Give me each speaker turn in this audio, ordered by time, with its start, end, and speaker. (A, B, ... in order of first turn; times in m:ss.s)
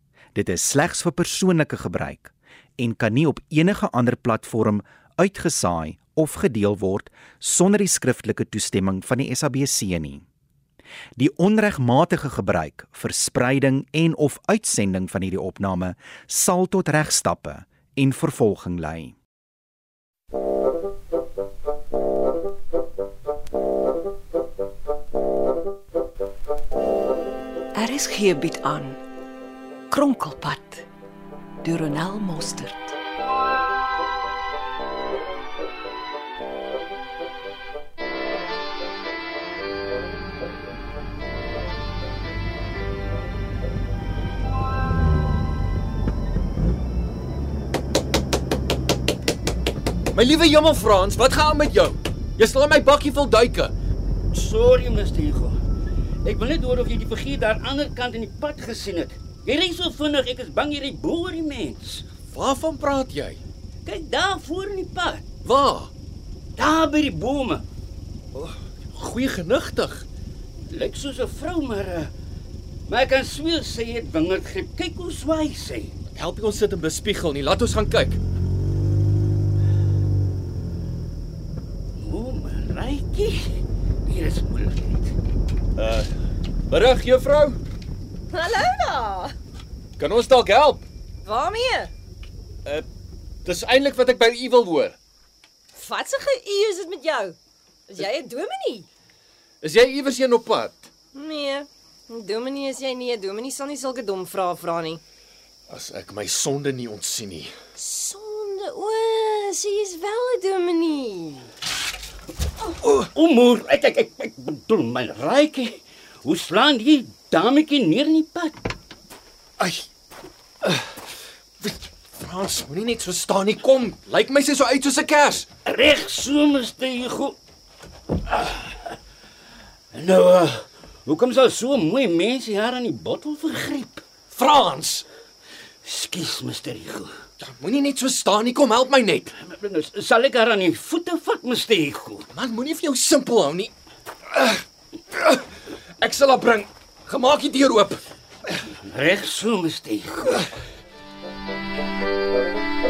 0:00.3-0:10.2 A
0:11.2-0:19.2 A
0:27.7-0:29.0 B
0:29.9-0:30.9 B
0:31.6-0:33.0 B
0:50.1-0:53.7 C
0:54.3-0:55.6 D
0:56.2-1:02.1 D
1:02.3-1:03.4 C
1:03.8-1:05.3 D
1:05.4-1:05.9 C
1:06.6-1:07.6 D
1:08.3-1:10.0 C
1:10.7-1:12.1 D
1:12.9-1:16.0 D
1:16.1-1:18.2 C
1:22.0-1:25.1 D
1:25.8-1:26.1 C
1:26.7-1:27.6 C
1:28.3-1:29.3 E
1:30.0-1:30.8 C
1:31.2-1:31.9 E
1:33.4-1:35.0 C
1:35.7-1:37.4 E
1:37.9-1:38.9 E
1:39.6-1:40.9 C
1:41.1-1:45.0 E
1:45.7-1:47.5 C
1:47.8-1:51.5 E
1:53.0-1:58.7 D
1:59.6-1:59.9 C
2:00.6-2:01.0 C
2:01.6-2:05.5 C
2:05.6-2:07.4 D
2:08.2-2:09.0 D
2:09.9-2:14.0 D
2:14.3-2:15.0 C
2:15.8-2:17.2 D
2:17.4-2:19.3 C
2:19.4-2:22.3 D
2:22.3-2:23.7 C
2:24.3-2:25.5 C
2:26.0-2:28.0 C
2:28.8-2:30.5 D